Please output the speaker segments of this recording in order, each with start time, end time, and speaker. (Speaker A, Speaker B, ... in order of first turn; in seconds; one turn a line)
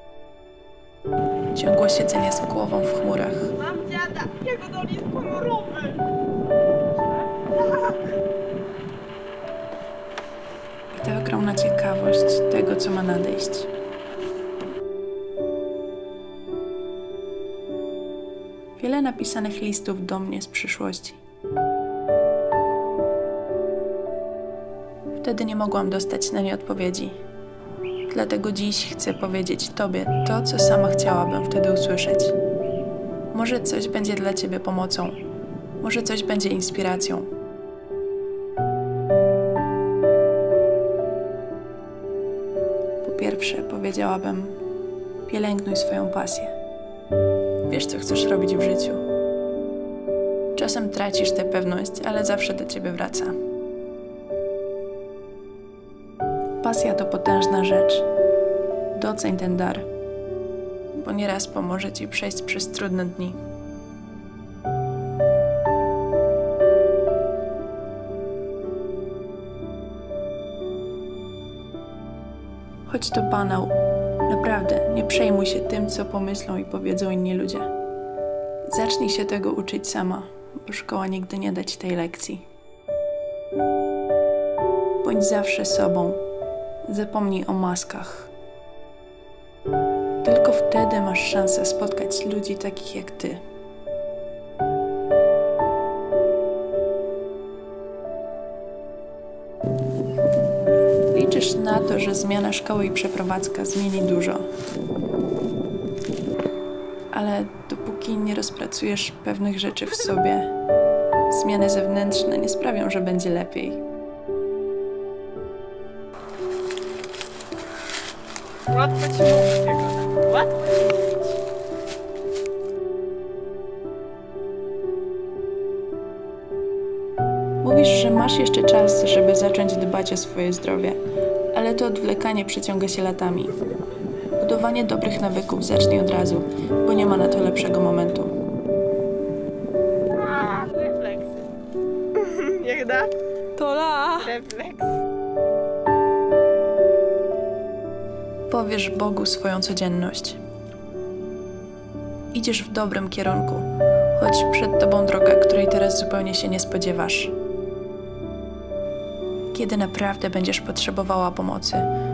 Speaker A: 1.5-3.6
Speaker B: 3.6-6.0
Speaker A: 10.9-13.7
Speaker A: 18.8-21.2
Speaker A: 25.1-27.2
Speaker A: 28.1-32.4
Speaker A: 33.3-35.2
Speaker A: 35.8-37.3
Speaker A: 43.0-44.6
Speaker A: 45.3-46.5
Speaker A: 47.7-49.0
Speaker A: 50.5-53.4
Speaker A: 56.6-58.1
Speaker A: 58.9-59.9
Speaker A: 60.9-63.4
Speaker A: 72.9-77.7
Speaker A: 78.7-82.5
Speaker A: 85.0-86.2
Speaker A: 86.8-88.3
Speaker A: 90.2-93.4
Speaker A: 101.1-104.5
Speaker A: 107.1-110.5
Speaker A: 111.3-113.8
Speaker B: 118.7-121.3
Speaker A: 127.6-131.0
Speaker A: 131.5-133.6
Speaker A: 134.4-138.3
Speaker B: 140.1-141.5
Speaker B: 142.2-143.1
Speaker A: 143.6-144.3
Speaker B: 144.1-145.0
Speaker A: 148.5-150.4
Speaker A: 152.3-157.3
Speaker A: 159.5-161.9